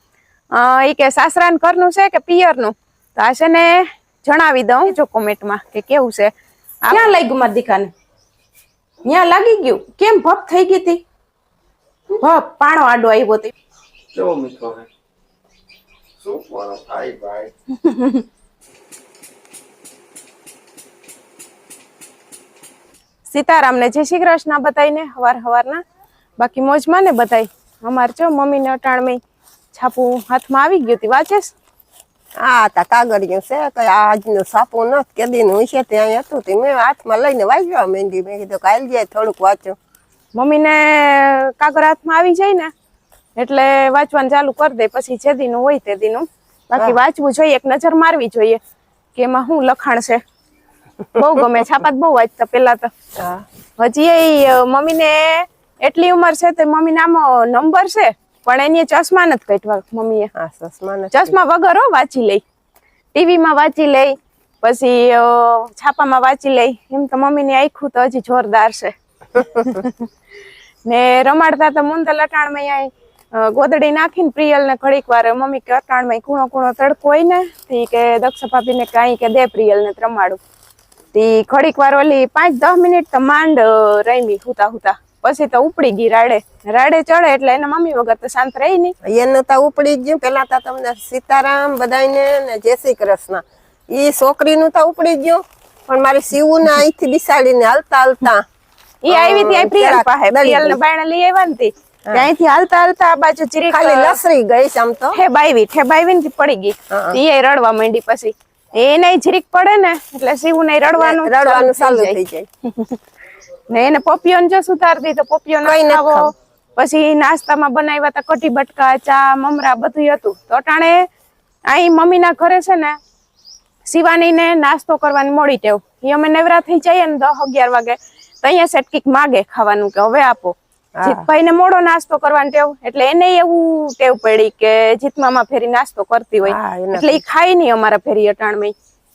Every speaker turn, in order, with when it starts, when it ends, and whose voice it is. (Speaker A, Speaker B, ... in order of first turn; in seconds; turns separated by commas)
Speaker A: 0.5-6.3, Speaker A: 6.8-7.9, Speaker A: 9.0-11.0, Speaker A: 12.2-13.5, Speaker B: 14.1-14.9, Speaker B: 16.2-17.5, Speaker A: 17.8-18.2, Speaker A: 23.2-25.8, Speaker A: 26.4-29.2, Speaker A: 29.7-31.5, Speaker C: 32.4-39.8, Speaker A: 40.3-42.7, Speaker A: 43.4-48.6, Speaker A: 49.1-50.2, Speaker A: 51.1-52.9, Speaker C: 53.2-53.4, Speaker A: 53.8-60.3, Speaker C: 60.3-61.4, Speaker A: 61.1-62.4, Speaker A: 63.1-70.1, Speaker C: 69.4-69.6, Speaker A: 70.8-80.4, Speaker A: 81.1-88.9, Speaker C: 89.0-98.4, Speaker A: 99.0-104.2, Speaker C: 99.1-100.8, Speaker C: 103.7-105.2, Speaker A: 105.1-113.0, Speaker C: 106.9-107.2, Speaker C: 111.0-112.5, Speaker A: 113.7-121.1, Speaker C: 115.6-116.3, Speaker A: 121.7-123.0, Speaker A: 123.8-138.7, Speaker C: 131.0-131.2, Speaker C: 136.4-137.2